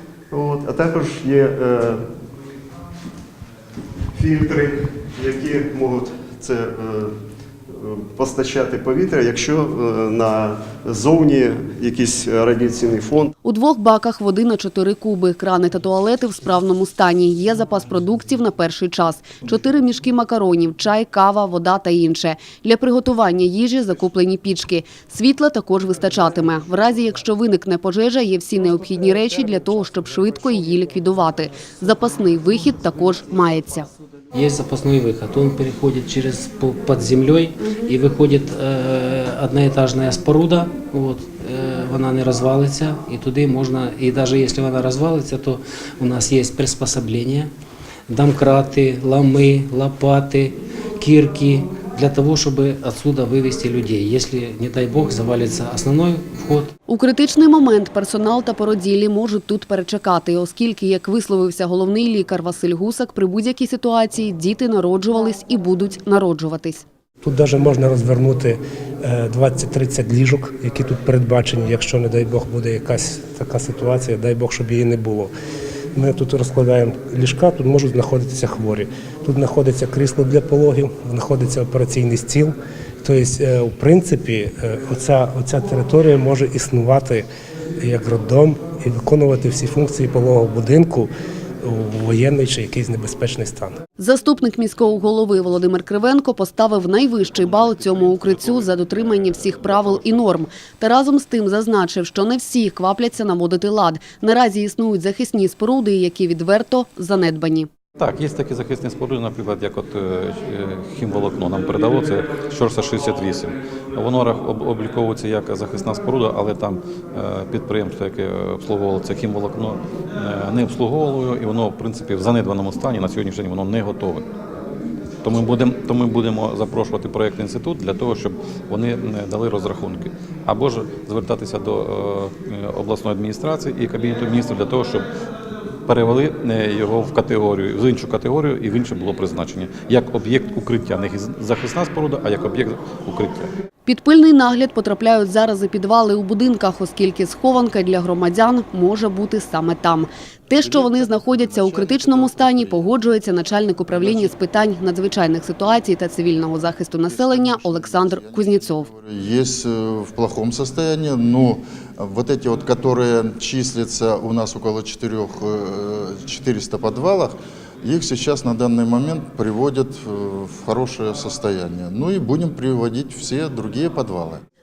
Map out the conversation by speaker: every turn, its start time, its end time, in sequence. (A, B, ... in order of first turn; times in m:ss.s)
0:00.3-0:02.1 A
0:04.1-0:07.1 A
0:07.7-0:13.3 A
0:13.4-0:33.9 B
0:34.3-0:47.5 C
0:48.1-0:56.7 C
0:56.9-1:06.8 B
1:07.2-1:15.3 D
1:16.0-1:27.2 D
1:27.8-1:31.1 D
1:31.6-1:33.8 D
1:34.0-1:47.7 B
1:48.0-2:04.2 E
2:05.2-2:15.0 E
2:15.9-2:23.5 E
2:23.8-2:38.9 B
2:31.2-2:32.8 F
2:37.1-2:54.4 F